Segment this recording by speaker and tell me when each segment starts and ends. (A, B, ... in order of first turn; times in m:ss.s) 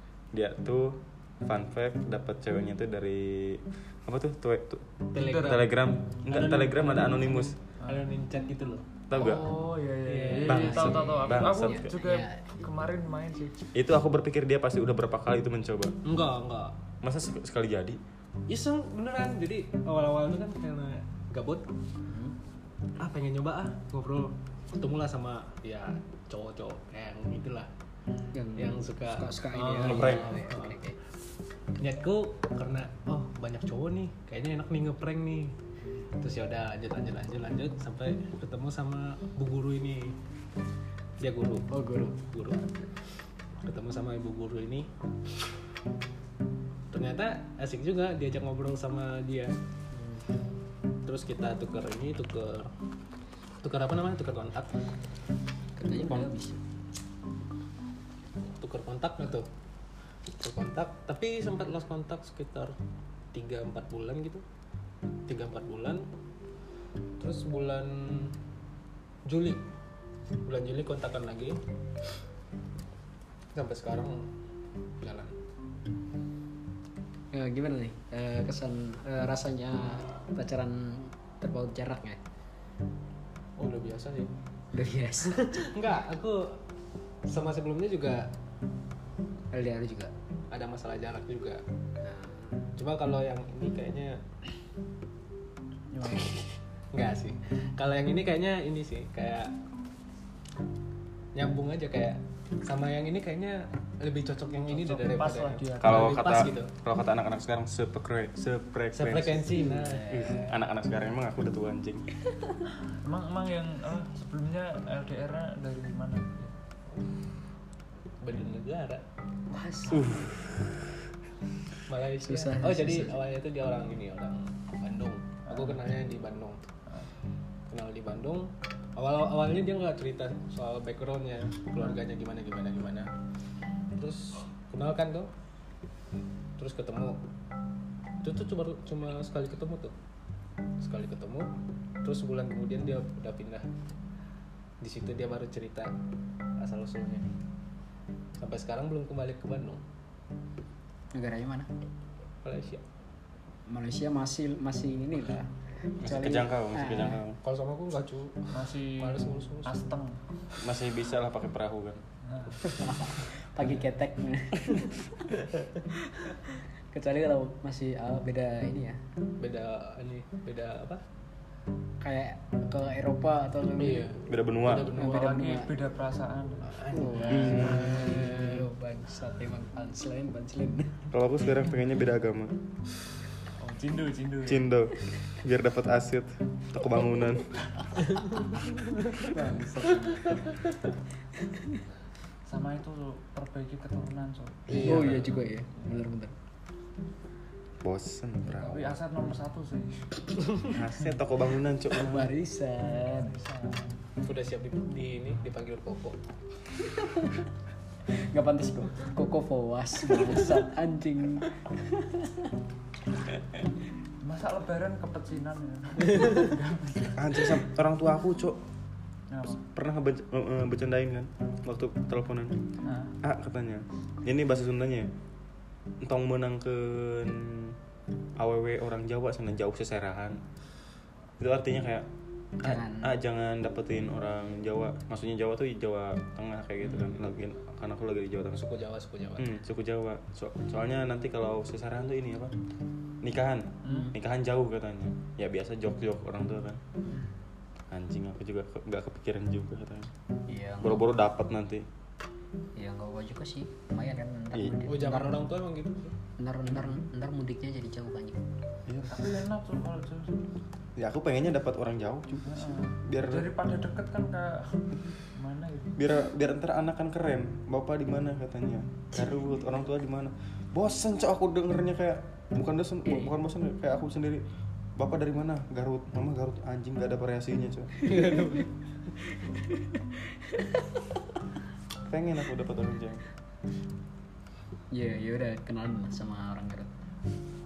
0:00.3-0:04.9 A
0:05.1-0:05.7 B
0:05.2-0:05.6 C
0:05.4-0:07.6 A
0:06.3-0:09.3 B
0:09.1-0:09.5 A
0:09.1-0:13.6 C
0:10.0-0:11.0 B
0:10.4-0:11.9 A
0:10.6-0:12.7 D
0:13.7-0:16.0 A
0:16.0-0:16.8 B
0:17.0-0:18.0 A
0:18.5-0:21.7 B
0:22.1-0:22.4 D
0:23.0-0:27.7 B
0:28.3-0:31.0 D
0:28.6-0:30.8 B
0:29.8-0:30.3 A
0:31.8-0:35.6 B
0:36.2-0:40.2 B
0:41.2-0:42.7 B
0:41.7-0:42.2 D
0:43.6-0:44.9 B
0:46.9-0:49.5 B
0:49.9-0:50.2 D
0:51.0-0:52.7 B
0:53.6-0:54.8 B
0:55.8-0:56.6 D
0:58.6-0:59.5 B
1:00.4-1:02.8 B
1:03.3-1:04.4 B
1:05.3-1:06.1 B
1:07.2-1:08.4 B
1:09.3-1:09.6 B
1:10.4-1:11.6 B
1:13.5-1:14.3 B
1:15.0-1:15.4 B
1:17.3-1:22.2 D
1:23.6-1:24.3 B
1:24.7-1:25.6 D
1:25.3-1:26.6 B
1:27.3-1:28.3 B
1:29.5-1:30.1 D
1:30.5-1:31.6 B
1:32.0-1:32.6 D
1:32.8-1:34.2 B
1:35.9-1:36.4 C
1:36.1-1:39.6 B
1:41.4-1:46.7 B
1:44.7-1:46.5 C
1:45.8-1:52.1 A
1:49.0-1:50.1 B
1:49.6-1:50.5 D
1:52.9-1:56.6 C
1:58.2-1:59.0 B
1:59.5-2:00.1 C
1:59.9-2:00.8 A
2:01.9-2:06.6 B
2:02.2-2:03.2 D
2:05.5-2:05.8 C
2:07.7-2:13.1 B
2:14.0-2:15.3 B
2:16.6-2:17.2 B
2:18.2-2:20.0 B
2:20.8-2:21.5 B
2:22.0-2:23.7 B
2:24.8-2:25.9 B
2:26.6-2:27.3 B
2:28.4-2:29.8 B
2:31.1-2:31.7 D
2:32.4-2:32.8 B
2:33.7-2:37.2 D
2:36.0-2:37.4 A
2:37.4-2:39.8 B
2:38.5-2:40.2 C
2:40.6-2:42.0 A
2:42.3-2:42.8 C
2:42.6-2:45.3 D
2:46.9-2:49.0 D
2:49.4-2:51.0 B
2:52.0-2:54.1 D
2:53.8-2:55.4 B
2:54.3-2:55.0 A
2:54.9-2:56.8 C
2:54.9-2:55.7 D
2:56.7-2:58.6 B
2:56.9-3:01.1 D
2:57.3-2:57.9 A
2:57.6-2:58.1 C
3:01.1-3:02.6 A
3:03.6-3:04.7 C
3:04.4-3:07.6 A
3:09.2-3:10.6 C
3:09.3-3:10.5 D
3:11.4-3:11.8 D
3:12.5-3:15.9 C
3:14.7-3:15.3 B
3:14.7-3:16.3 D
3:17.8-3:19.0 A
3:18.5-3:20.8 C
3:20.7-3:22.3 A
3:21.9-3:23.4 D
3:23.2-3:24.0 C
3:24.2-3:26.2 B
3:26.8-3:27.4 D
3:28.1-3:32.4 D
3:34.2-3:37.6 C
3:37.2-3:38.6 A
3:39.3-3:39.6 C
3:39.6-3:42.6 A
3:42.8-3:43.2 C
3:43.2-3:45.1 A
3:46.0-3:47.8 A
3:48.4-3:50.4 A
3:51.4-3:52.1 A
3:52.6-3:53.1 D
3:52.6-3:58.7 A
3:58.6-3:59.5 B
3:59.4-4:02.6 A
4:03.2-4:06.8 A
4:03.9-4:04.1 C
4:03.9-4:04.1 D
4:07.9-4:10.1 A
4:10.5-4:11.1 D
4:10.8-4:11.9 A
4:12.8-4:15.5 D
4:14.9-4:16.1 B
4:16.4-4:18.4 D
4:18.9-4:19.3 A
4:19.1-4:20.5 C
4:21.0-4:23.5 A
4:22.5-4:26.0 C
4:26.0-4:34.4 A
4:33.1-4:33.3 D
4:35.0-4:38.2 A
4:38.1-4:38.7 B
4:38.1-4:38.4 D
4:39.3-4:40.8 D
4:42.1-4:43.2 A
4:44.9-4:46.9 D